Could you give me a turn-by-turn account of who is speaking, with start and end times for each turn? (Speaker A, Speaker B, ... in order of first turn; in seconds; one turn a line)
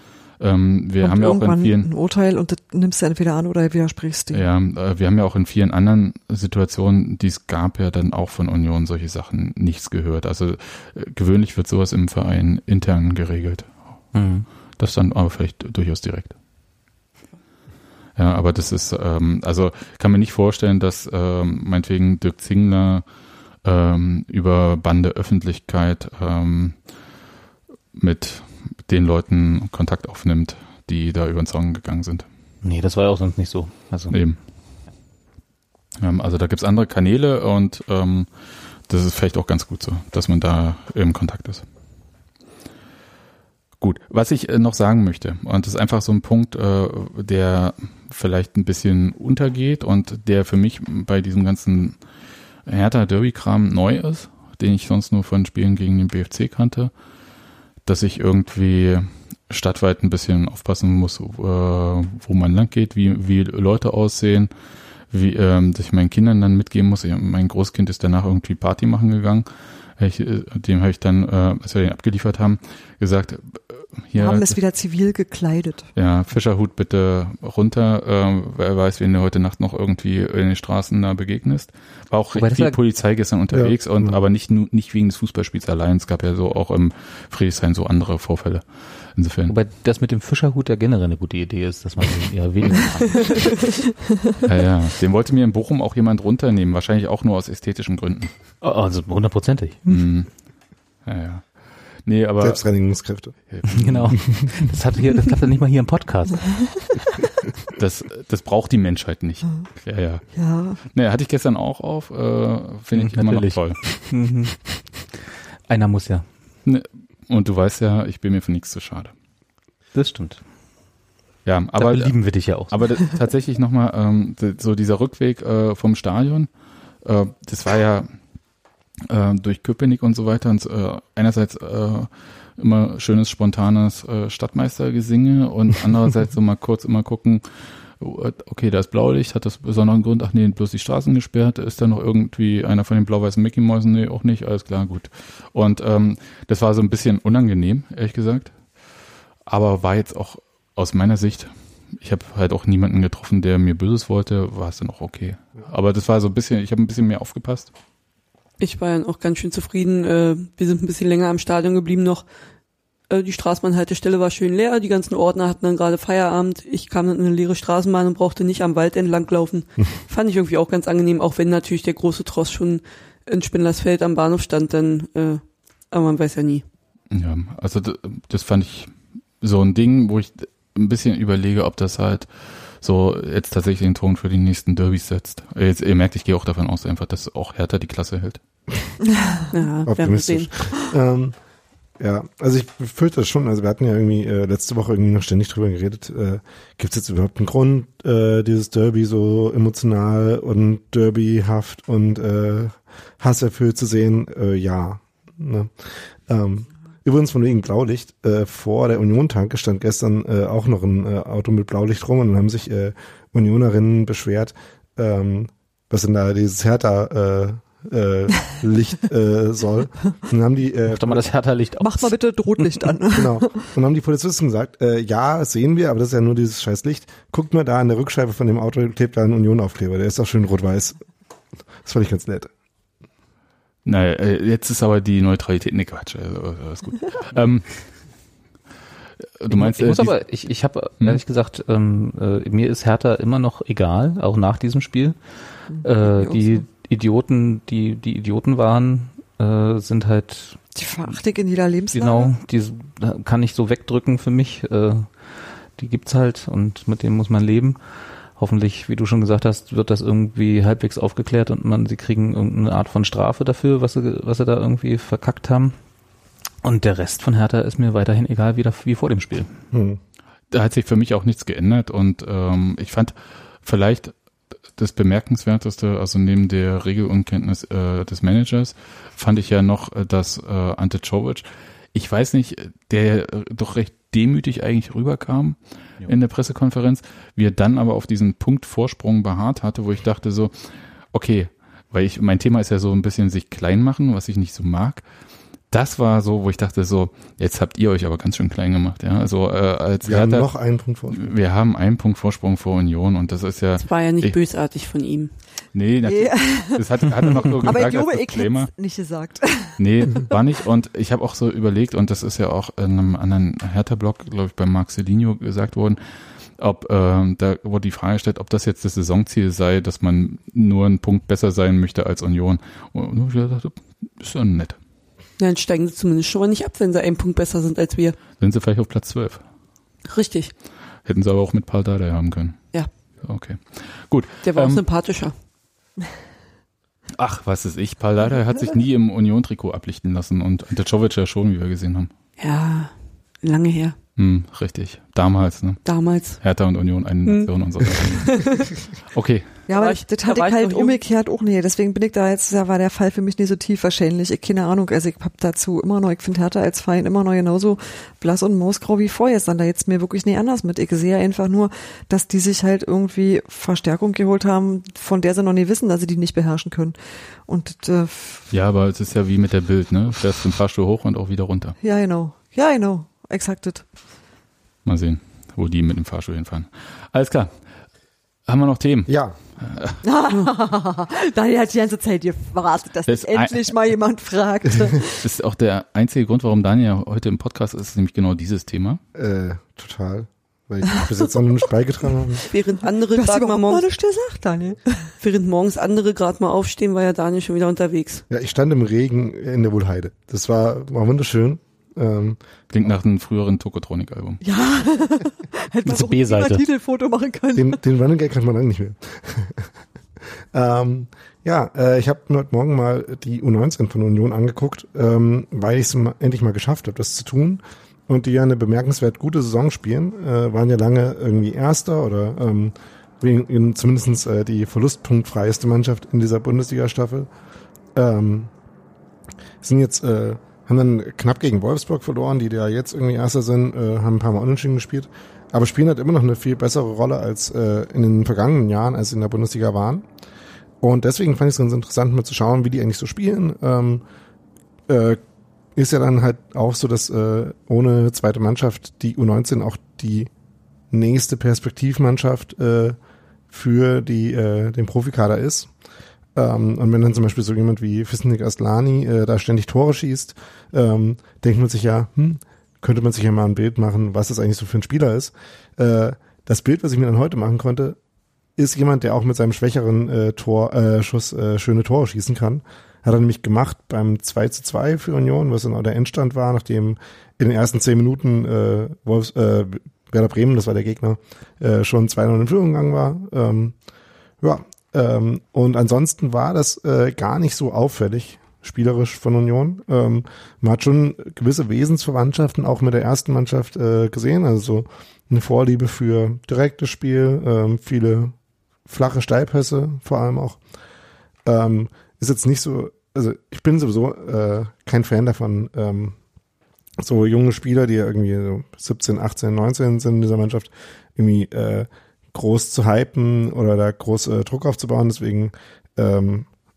Speaker A: 0.4-1.9
Speaker B: 1.0-4.4
Speaker A: 4.3-13.7
Speaker C: 14.1-14.5
Speaker A: 14.8-16.3
Speaker A: 18.1-23.0
Speaker A: 23.6-26.8
Speaker A: 27.9-32.2
Speaker C: 32.6-34.2
Speaker A: 34.1-34.4
Speaker A: 36.0-38.3
Speaker A: 38.9-41.6
Speaker A: 43.8-52.0
Speaker A: 52.6-56.9
Speaker A: 57.8-64.5
Speaker A: 65.1-74.6
Speaker B: 74.2-75.9
Speaker A: 76.0-88.6
Speaker C: 82.3-82.8
Speaker D: 83.5-84.2
Speaker A: 89.2-89.5
Speaker C: 89.5-93.6
Speaker E: 93.1-93.6
Speaker A: 94.4-98.3
Speaker C: 98.6-100.0
Speaker A: 99.9-100.3
Speaker A: 101.0-101.5
Speaker A: 102.0-102.6
Speaker D: 102.4-103.3
Speaker A: 103.5-104.3
Speaker C: 103.7-106.9
Speaker A: 107.8-110.2
Speaker B: 110.3-110.8
Speaker A: 110.8-114.0
Speaker C: 112.9-115.1
Speaker C: 115.7-116.2
Speaker A: 116.6-119.1
Speaker C: 119.9-120.4
Speaker A: 121.4-126.5
Speaker C: 121.8-122.8
Speaker A: 127.0-128.1
Speaker A: 129.1-137.4
Speaker A: 138.0-148.5
Speaker A: 149.4-157.7
Speaker E: 158.6-162.2
Speaker E: 163.1-176.6
Speaker A: 177.1-188.4
Speaker E: 189.5-190.7
Speaker D: 189.8-191.3
Speaker D: 192.0-221.2
Speaker C: 220.9-222.1
Speaker B: 221.8-223.6
Speaker D: 223.1-231.0
Speaker D: 231.8-232.5
Speaker A: 233.8-237.8
Speaker A: 239.4-240.2
Speaker C: 239.5-245.2
Speaker B: 245.8-246.4
Speaker C: 245.8-250.6
Speaker B: 250.7-252.3
Speaker C: 251.9-257.8
Speaker C: 258.4-265.7
Speaker C: 266.6-269.5
Speaker D: 269.7-270.0
Speaker A: 270.5-274.1
Speaker A: 274.8-295.0
Speaker A: 295.7-300.5
Speaker D: 300.0-301.3
Speaker A: 301.1-304.4
Speaker E: 303.8-305.3
Speaker A: 305.7-308.7
Speaker B: 306.1-307.1
Speaker B: 307.6-309.8
Speaker A: 309.8-316.0
Speaker A: 316.6-324.8
Speaker E: 325.4-328.2
Speaker A: 328.4-329.4
Speaker E: 330.1-330.5
Speaker A: 331.1-332.6
Speaker A: 333.2-334.8
Speaker E: 334.4-335.3
Speaker A: 337.1-342.1
Speaker E: 342.4-343.9
Speaker A: 344.2-349.6
Speaker E: 345.8-346.4
Speaker E: 347.2-348.7
Speaker B: 349.7-366.9
Speaker E: 349.7-351.0
Speaker B: 367.5-368.5
Speaker A: 368.5-371.8
Speaker B: 371.8-373.8
Speaker A: 374.8-377.5
Speaker A: 378.4-380.0
Speaker D: 379.1-379.3
Speaker B: 380.0-385.3
Speaker A: 383.1-383.7
Speaker A: 385.2-389.0
Speaker D: 389.1-392.4
Speaker E: 392.5-393.9
Speaker B: 393.1-395.1
Speaker E: 395.2-398.2
Speaker D: 398.3-402.4
Speaker A: 402.7-404.4
Speaker B: 404.4-407.8
Speaker C: 405.8-406.6
Speaker D: 407.5-409.7
Speaker D: 410.5-427.3
Speaker D: 427.9-428.5
Speaker D: 429.6-440.1
Speaker D: 440.8-444.0
Speaker D: 444.9-445.2
Speaker D: 445.7-450.3
Speaker D: 450.9-453.0
Speaker D: 453.5-455.7
Speaker D: 456.3-468.0
Speaker D: 468.6-483.8
Speaker D: 484.4-498.3
Speaker D: 498.9-500.6
Speaker D: 501.4-506.1
Speaker D: 507.0-516.5